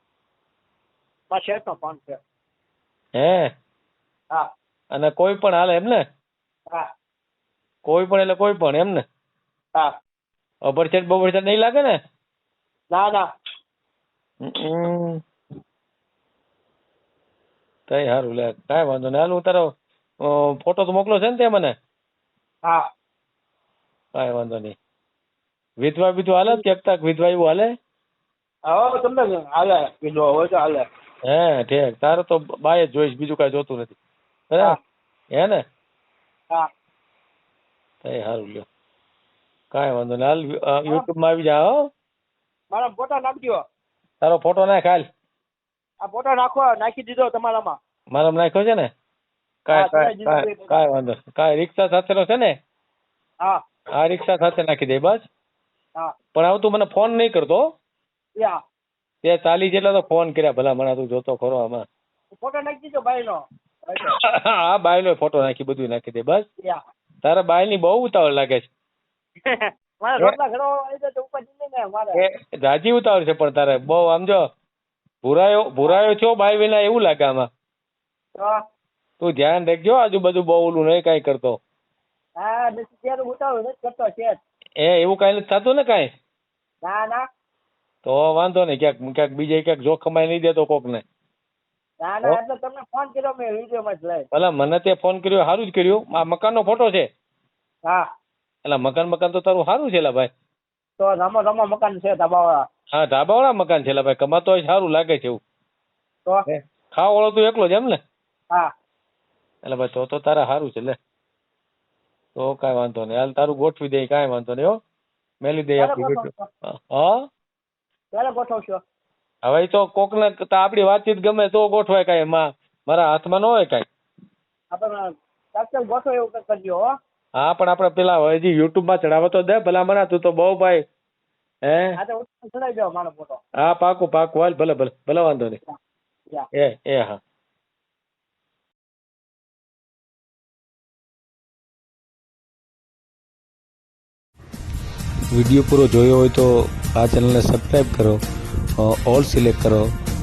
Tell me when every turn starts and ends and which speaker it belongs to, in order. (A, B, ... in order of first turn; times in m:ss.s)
0:01.3-0:02.2 A
0:03.2-0:03.5 B
0:04.9-0:06.0 B
0:07.8-0:09.0 B
0:10.6-0:12.0 B
0:12.9-0:13.3 A
0:14.4-0:15.2 B
0:17.9-0:19.7 B
0:20.2-0:21.7 B
0:24.2-0:24.8 B
0:25.8-0:27.7 B
0:28.7-0:30.8 A
0:31.3-0:33.9 B
0:34.5-0:34.8 B
0:35.4-0:35.6 B
0:38.0-0:38.6 B
0:39.7-0:41.9 B
0:42.7-0:43.6 A
0:44.2-0:45.1 B
0:46.0-0:47.8 A
0:48.1-0:48.9 B
0:49.7-0:52.6 B
0:49.7-0:50.7 A
0:53.9-0:55.2 B
0:56.3-0:57.7 B
0:59.2-1:01.8 B
1:02.4-1:04.2 A
1:04.2-1:06.4 B
1:07.2-1:08.7 B
1:09.4-1:12.2 A
1:12.2-1:14.4 B
1:15.2-1:17.5 B
1:19.2-1:21.6 B
1:22.4-1:24.4 A
1:24.8-1:26.1 B
1:26.8-1:27.2 A
1:28.0-1:31.0 B
1:32.0-1:34.2 A
1:34.3-1:37.1 B
1:38.6-1:40.3 B
1:41.0-1:42.7 A
1:42.9-1:45.4 B
1:46.4-1:48.0 B
1:49.6-1:51.0 B
1:52.4-1:54.8 B
1:55.4-1:57.2 B
1:55.8-1:56.5 A
1:58.1-1:58.8 A
1:59.4-2:03.8 B
2:04.7-2:05.0 A
2:05.6-2:06.9 A
2:07.4-2:10.8 B
2:11.7-2:12.0 B
2:12.0-2:13.4 A
2:13.6-2:15.6 B
2:16.5-2:17.2 B
2:25.3-2:28.2 C
2:28.8-2:29.9 C